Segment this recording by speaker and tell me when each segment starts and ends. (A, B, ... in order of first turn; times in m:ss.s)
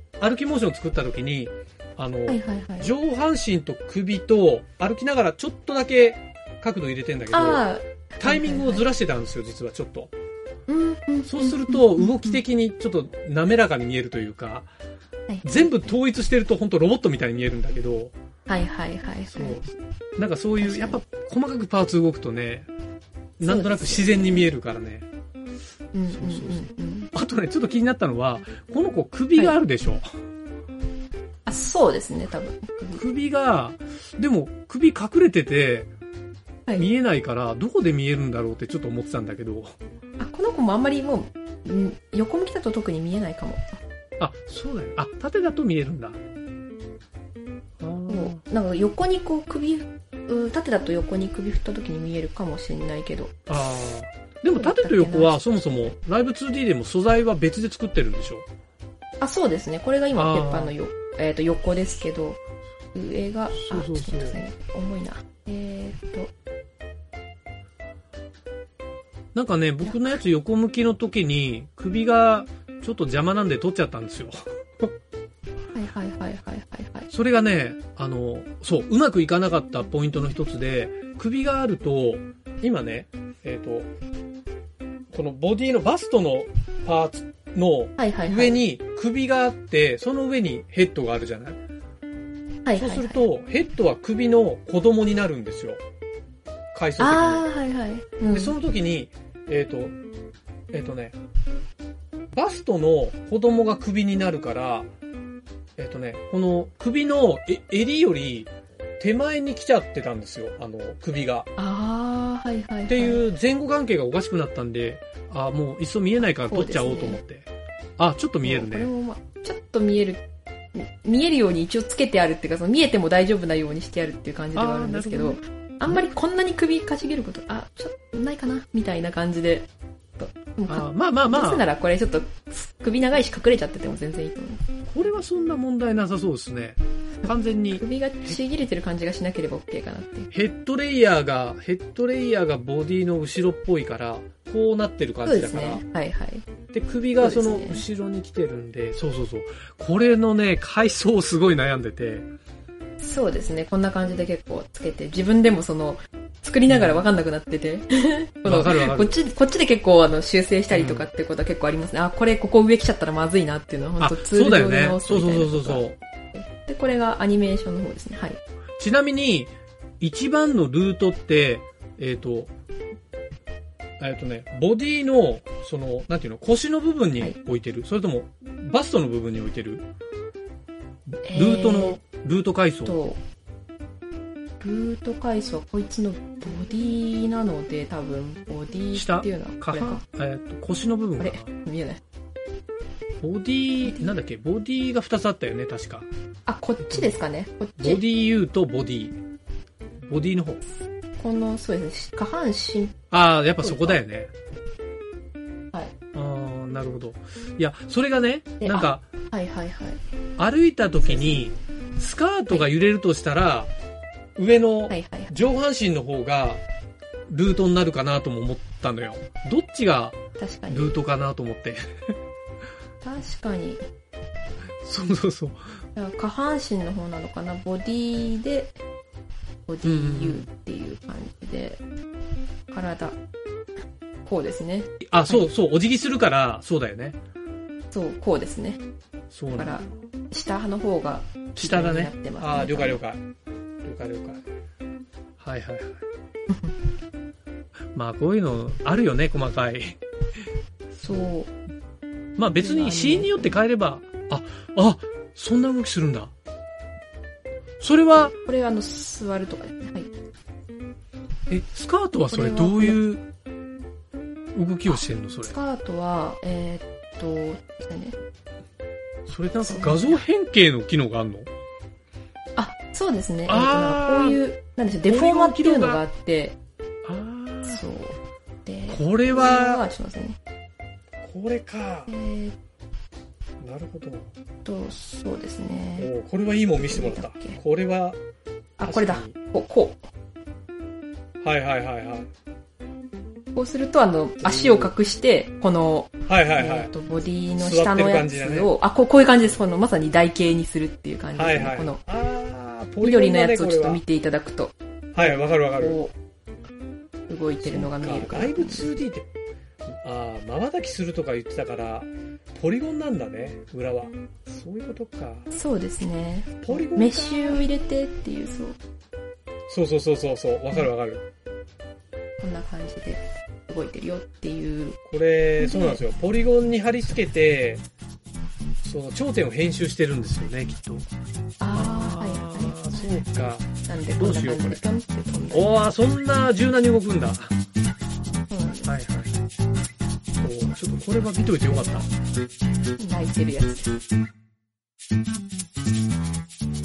0:00.2-0:07.7 A
0:02.3-0:02.9 B
0:07.3-0:08.9 B
0:08.2-0:10.1 A
0:10.7-0:12.4 B
0:11.3-0:14.7 A
0:15.3-0:15.9 B
0:15.4-0:18.1 A
0:18.5-0:19.6 B
0:19.3-0:22.7 A
0:20.6-0:21.0 B
0:23.4-0:25.1 A
0:23.4-0:24.5 B
0:25.9-0:27.1 B
0:26.1-0:30.0 A
0:31.5-0:33.0 B
0:32.9-0:35.9 A
0:36.8-0:39.7 A
0:40.2-0:43.6 B
0:44.2-0:46.2 A
0:47.8-0:48.4 A
0:48.1-0:53.4 B
0:53.5-0:58.5 A
0:54.5-0:55.9 B
0:59.2-1:02.4 B
1:00.1-1:00.7 A
1:02.9-1:06.3 B
1:03.5-1:04.4 A
1:09.3-1:14.9 A
1:15.8-1:17.1 B
1:17.1-1:23.9 A
1:25.1-1:31.6 A
1:28.0-1:28.6 B
1:32.6-1:33.2 B
1:32.8-1:35.8 A
1:36.7-1:37.5 A
1:37.0-1:38.6 B
1:38.3-1:40.0 A
1:40.7-1:41.2 A
1:42.3-1:44.9 A
1:45.8-1:51.5 A
1:51.6-1:53.2 B
1:52.9-1:58.9 A
1:56.4-1:57.2 B
1:58.4-2:00.2 B
2:00.8-2:14.6 B
2:04.6-2:05.4 A
2:10.7-2:11.7 A
2:14.9-2:18.4 A
2:17.7-2:20.3 B
2:20.3-2:25.8 A
2:25.2-2:26.5 B
2:26.7-2:32.3 A
2:27.2-2:27.8 B
2:33.0-2:48.4 B
2:36.7-2:37.0 A
2:38.4-2:39.1 A
2:40.7-2:41.1 A
2:44.0-2:46.0 A
2:48.8-2:52.5 A
2:54.0-2:59.8 A
3:01.2-3:02.0 B
3:01.3-3:03.0 A
3:02.9-3:03.2 B
3:04.6-3:10.0 B
3:08.9-3:11.5 A
3:11.2-3:12.0 B
3:13.2-3:16.1 A
3:16.5-3:18.0 B
3:16.9-3:17.2 A
3:17.8-3:19.2 A
3:20.0-3:20.6 A
3:21.2-3:23.0 B
3:23.1-3:24.3 A
3:23.6-3:24.0 B
3:26.1-3:29.0 A
3:28.6-3:30.0 B
3:30.4-3:33.7 A
3:31.1-3:31.4 B
3:34.4-3:36.6 A
3:34.9-3:35.3 B
3:37.3-3:41.8 A
3:40.4-3:41.0 B
3:43.0-3:43.8 B
3:44.8-3:45.6 A
3:46.0-3:48.8 B
3:49.7-3:51.8 B
3:49.8-3:50.5 A
3:52.7-3:53.2 B
3:54.2-3:55.5 B
3:55.0-3:57.2 A
3:57.9-3:58.8 B
3:59.3-3:59.8 A
3:59.6-4:03.0 B
4:01.6-4:03.2 A
4:03.8-4:04.4 A
4:05.4-4:06.0 A
4:08.0-4:10.0 A
4:11.0-4:11.5 B
4:12.4-4:16.3 A
4:12.6-4:13.6 B
4:17.8-4:18.4 A
4:18.2-4:20.1 B
4:21.5-4:23.2 A
4:22.2-4:23.0 B
4:24.6-4:25.6 A
4:25.0-4:28.2 B
4:29.3-4:31.5 A
4:29.6-4:30.2 B
4:32.6-4:36.6 B
4:33.5-4:34.4 A
4:35.1-4:36.0 A
4:37.0-4:37.8 A
4:37.7-4:40.4 B
4:38.9-4:39.9 A
4:41.2-4:42.1 A
4:42.1-4:42.6 B
4:43.6-4:44.3 A
4:44.6-4:46.1 B
4:46.0-4:48.2 A
4:46.8-4:47.6 B
4:48.8-4:50.0 B
4:48.8-4:49.4 A
4:51.4-4:52.3 A
4:53.6-5:02.0 B
4:54.4-4:54.9 A
4:56.3-4:56.9 A
4:57.6-4:58.7 A
5:01.3-5:04.0 A
5:03.0-5:06.1 B
5:05.1-5:06.0 A
5:07.3-5:08.9 B
5:07.6-5:09.3 A
5:09.9-5:15.5 A
5:15.5-5:18.8 B
5:16.6-5:17.6 A
5:19.7-5:21.2 A
5:22.4-5:25.0 B
5:25.1-5:27.8 A
5:25.6-5:26.0 B
5:28.8-5:31.1 A
5:31.6-5:33.1 B
5:31.7-5:34.8 A
5:33.8-5:35.8 B
5:35.5-5:37.5 A
5:38.5-5:38.9 B
5:38.8-5:39.4 A
5:40.4-5:42.1 A
5:43.0-5:43.9 B